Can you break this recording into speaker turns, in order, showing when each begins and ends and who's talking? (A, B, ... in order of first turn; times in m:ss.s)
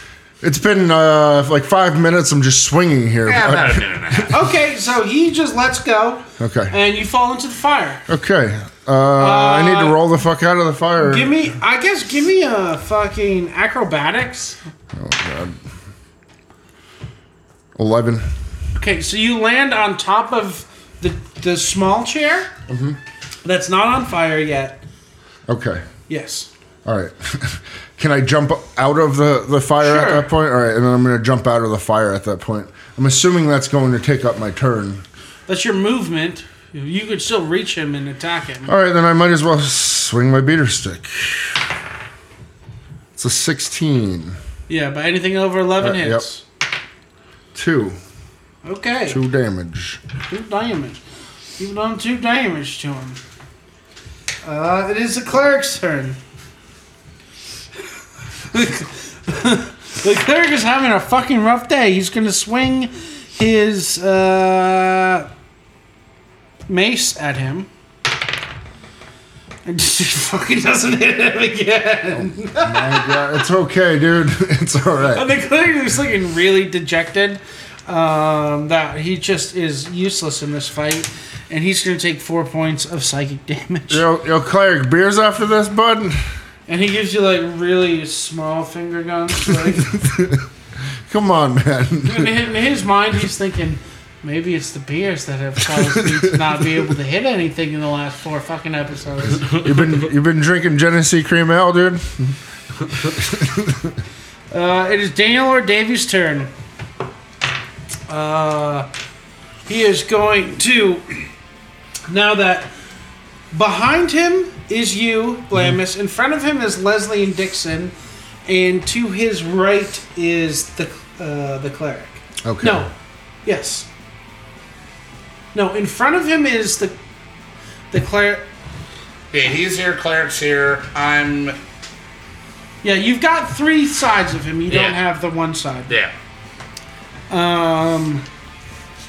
0:00.4-0:04.3 A
0:03.2-0:04.4 B
0:04.3-0:08.0 C
0:06.4-0:06.7 A
0:08.1-0:11.4 A
0:09.2-0:10.0 C
0:11.0-0:14.6 C
0:14.9-0:15.6 A
0:17.8-0:18.3 A
0:18.7-0:22.5 C
0:22.7-0:23.0 A
0:23.4-0:24.8 C
0:25.5-0:25.8 A
0:26.1-0:26.5 C
0:26.8-0:35.0 A
0:29.8-0:30.3 C
0:35.5-0:38.7 C
0:38.6-0:41.6 A
0:43.2-0:44.4 A
0:44.7-0:46.4 C
0:45.8-0:46.2 A
0:47.5-0:48.0 A
0:48.6-0:49.2 C
0:49.1-0:50.0 A
0:50.3-0:51.0 C
0:51.6-0:53.2 C
0:54.4-0:56.2 C
0:58.5-1:05.3 C
1:06.7-1:07.7 C
1:09.6-1:13.4 C
1:12.1-1:15.3 A
1:15.1-1:24.0 C
1:23.9-1:26.2 A
1:26.7-1:29.9 C
1:29.5-1:30.4 A
1:31.1-1:32.4 A
1:32.0-1:39.6 C
1:35.8-1:36.5 A
1:39.2-1:42.4 A
1:42.9-1:44.0 A
1:44.5-1:46.5 C
1:48.1-1:48.9 C
1:49.7-1:51.3 C
1:52.1-1:52.7 C
1:53.5-1:57.9 C
1:58.4-2:02.9 C
2:02.4-2:02.8 A
2:03.4-2:03.9 C
2:05.5-2:07.0 C
2:07.9-2:08.5 C
2:09.3-2:11.6 B
2:12.8-2:15.9 C
2:14.7-2:15.0 B
2:17.3-2:18.2 C